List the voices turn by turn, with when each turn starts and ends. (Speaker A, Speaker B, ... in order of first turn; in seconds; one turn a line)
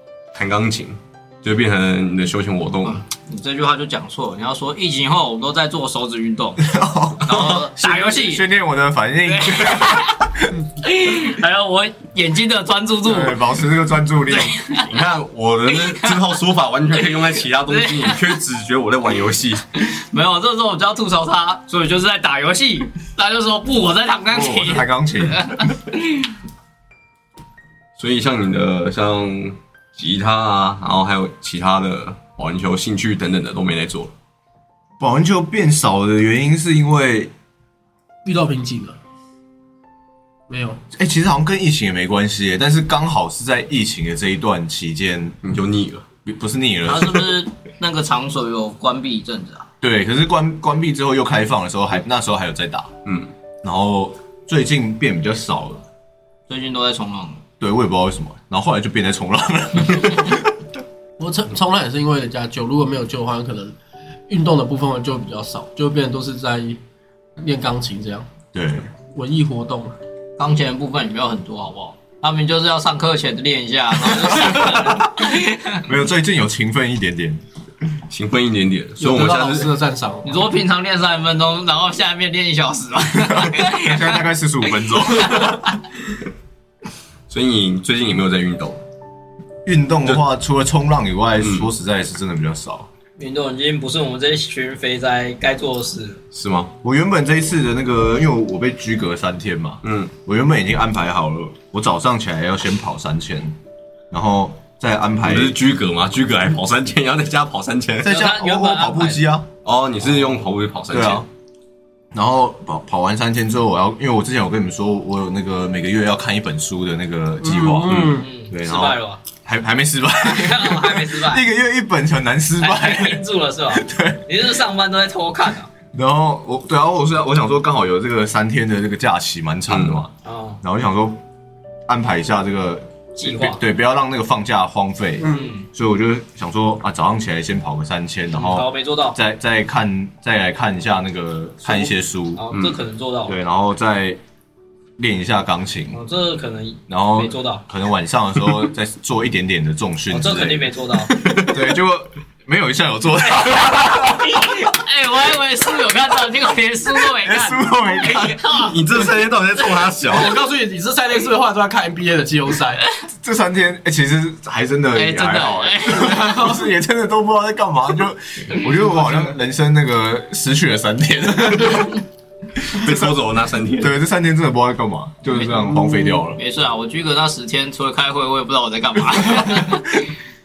Speaker A: 0.3-3.0
Speaker B: 2.9-6.7
Speaker C: 6.6-10.5
Speaker B: 7.2-8.5
Speaker B: 9.2-10.2
Speaker B: 10.8-13.4
Speaker C: 13.0-14.6
Speaker B: 14.3-14.9
Speaker A: 14.9-19.6
Speaker B: 15.7-16.4
Speaker B: 16.9-18.4
Speaker B: 19.8-26.3
Speaker C: 24.3-25.6
Speaker A: 28.0-34.1
Speaker C: 35.0-37.3
Speaker D: 38.2-39.0
Speaker D: 40.5-40.8
Speaker C: 40.9-45.4
Speaker A: 45.4-46.1
Speaker C: 46.2-47.3
Speaker B: 46.9-49.7
Speaker C: 49.8-52.9
Speaker A: 53.0-53.3
Speaker C: 53.6-55.8
Speaker B: 56.5-57.4
Speaker C: 57.6-60.5
Speaker D: 61.2-63.8
Speaker D: 64.3-66.8
Speaker D: 67.4-68.3
Speaker C: 68.5-68.9
Speaker D: 69.1-69.9
Speaker B: 70.4-75.9
Speaker C: 74.5-75.0
Speaker C: 75.8-77.4
Speaker A: 78.1-79.7
Speaker D: 79.0-80.5
Speaker B: 80.2-85.7
Speaker C: 83.2-85.6
Speaker A: 87.3-88.8
Speaker C: 89.7-92.9
Speaker A: 91.4-91.7
Speaker B: 93.2-96.2
Speaker A: 96.3-96.7
Speaker C: 96.8-103.6
Speaker A: 99.8-100.1
Speaker C: 104.1-105.5
Speaker A: 105.2-108.1
Speaker C: 108.0-109.5
Speaker B: 108.1-109.2
Speaker A: 109.7-111.3
Speaker C: 110.9-111.2
Speaker C: 112.1-124.2
Speaker D: 117.4-118.3
Speaker A: 117.9-118.2
Speaker B: 118.1-119.2
Speaker B: 120.2-121.4
Speaker B: 122.6-125.7
Speaker C: 125.9-130.1
Speaker A: 129.7-130.0
Speaker B: 130.2-130.6
Speaker C: 130.6-131.2
Speaker C: 131.9-142.4
Speaker B: 133.2-133.6
Speaker D: 135.2-135.5
Speaker B: 135.2-135.7
Speaker B: 138.3-139.2
Speaker B: 141.7-143.4
Speaker A: 142.5-142.8
Speaker C: 143.3-144.2
Speaker C: 145.0-146.0
Speaker B: 145.9-147.6
Speaker C: 146.9-150.7
Speaker B: 150.1-151.2
Speaker A: 151.2-151.6
Speaker C: 151.3-154.4
Speaker B: 153.3-158.8
Speaker C: 157.1-158.4
Speaker A: 158.6-160.4
Speaker D: 160.1-162.8
Speaker C: 163.2-171.9
Speaker B: 164.9-166.5
Speaker D: 166.0-166.6
Speaker D: 169.0-169.3
Speaker C: 172.7-173.1
Speaker A: 172.7-173.9
Speaker C: 173.8-176.4
Speaker D: 175.6-176.2
Speaker B: 176.4-180.0
Speaker D: 179.4-179.7